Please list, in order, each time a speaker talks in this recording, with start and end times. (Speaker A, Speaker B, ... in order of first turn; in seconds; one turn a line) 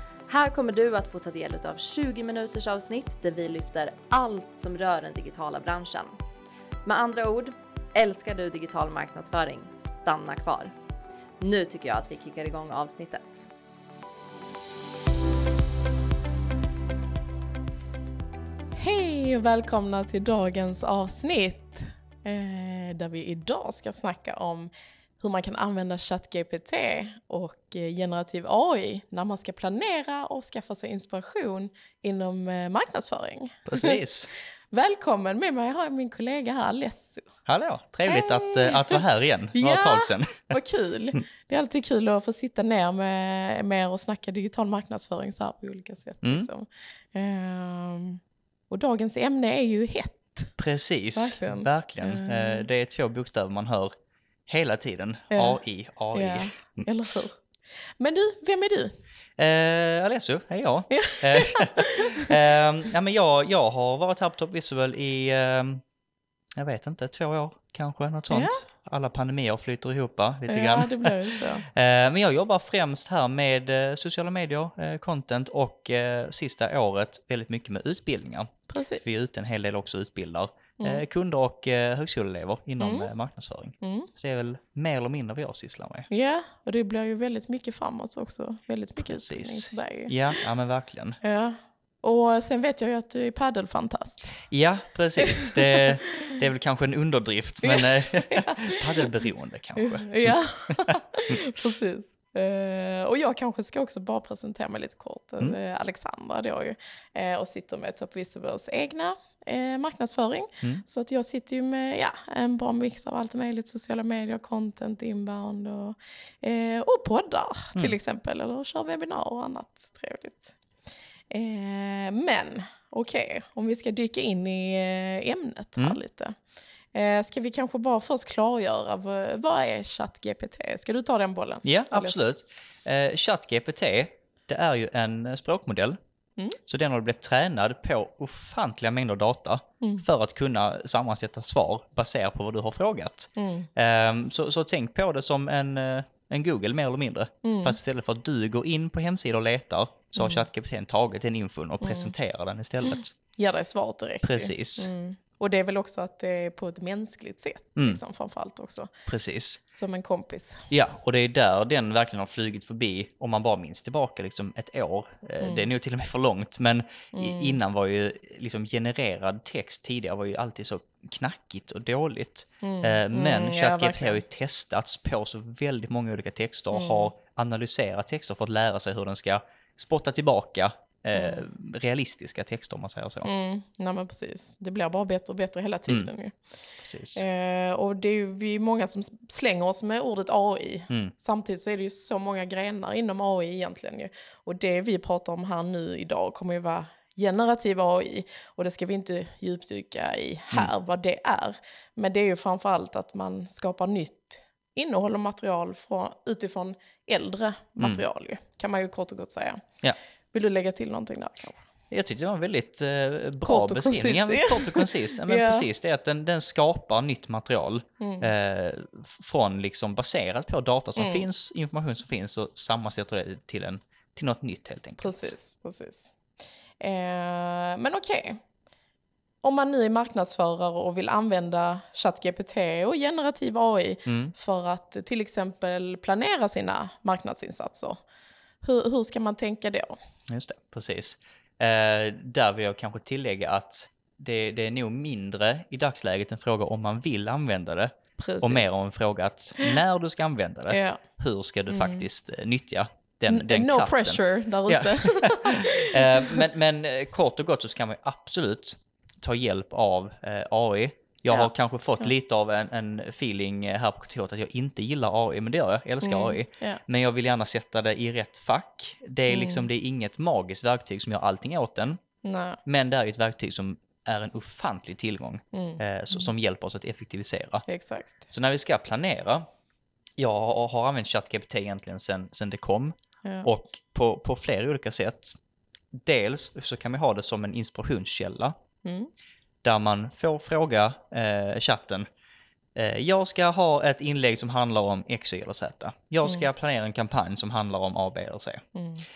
Speaker A: 0.3-6.2
Speaker A: 6.8-10.7
Speaker A: 11.4-13.5
Speaker B: 18.8-34.0
Speaker C: 33.7-34.3
Speaker B: 34.7-37.3
Speaker C: 37.5-40.6
Speaker B: 38.1-39.0
Speaker B: 39.5-50.6
Speaker C: 46.2-46.5
Speaker C: 50.6-53.9
Speaker B: 51.1-52.7
Speaker C: 54.5-56.9
Speaker B: 55.3-55.6
Speaker B: 56.1-57.4
Speaker B: 58.0-59.0
Speaker C: 59.4-65.8
Speaker B: 60.9-62.4
Speaker C: 66.6-86.1
Speaker B: 68.3-68.6
Speaker B: 70.5-71.7
Speaker B: 78.7-79.0
Speaker B: 82.8-83.1
Speaker B: 83.8-84.1
Speaker B: 86.1-90.4
Speaker C: 89.0-91.2
Speaker B: 91.2-94.4
Speaker C: 94.5-101.4
Speaker B: 95.2-96.3
Speaker B: 97.6-99.1
Speaker B: 99.8-120.5
Speaker B: 121.3-126.4
Speaker B: 126.9-132.2
Speaker C: 131.6-136.0
Speaker C: 136.7-153.2
Speaker B: 143.4-143.7
Speaker B: 147.4-147.8
Speaker B: 150.2-150.4
Speaker B: 151.8-152.1
Speaker B: 152.9-158.9
Speaker C: 154.2-154.9
Speaker C: 159.1-159.6
Speaker B: 159.7-160.7
Speaker C: 160.7-183.3
Speaker B: 165.4-165.7
Speaker B: 167.1-167.6
Speaker B: 172.6-174.2
Speaker B: 176.7-177.1
Speaker B: 181.1-181.4
Speaker B: 183.2-186.4
Speaker C: 186.8-187.2
Speaker B: 187.2-209.7
Speaker C: 207.8-208.0
Speaker B: 210.3-211.6
Speaker C: 211.9-225.3
Speaker B: 213.4-215.7
Speaker B: 218.0-218.3
Speaker B: 221.0-221.3
Speaker B: 225.0-226.1
Speaker B: 226.8-228.4
Speaker B: 229.4-238.0
Speaker C: 234.1-234.3
Speaker B: 238.6-240.0
Speaker C: 240.3-272.0
Speaker B: 248.2-248.8
Speaker B: 250.7-251.0
Speaker B: 251.7-252.1
Speaker B: 253.3-256.4
Speaker B: 261.3-262.1
Speaker B: 266.0-266.8
Speaker B: 269.3-269.7
Speaker B: 272.2-272.6
Speaker C: 272.7-277.7
Speaker B: 275.5-276.3
Speaker B: 277.7-278.3
Speaker C: 278.3-279.5
Speaker C: 280.2-285.4
Speaker B: 283.2-283.5
Speaker C: 285.9-288.6
Speaker B: 288.8-289.1
Speaker C: 289.6-292.1
Speaker C: 292.8-298.6
Speaker B: 298.8-299.1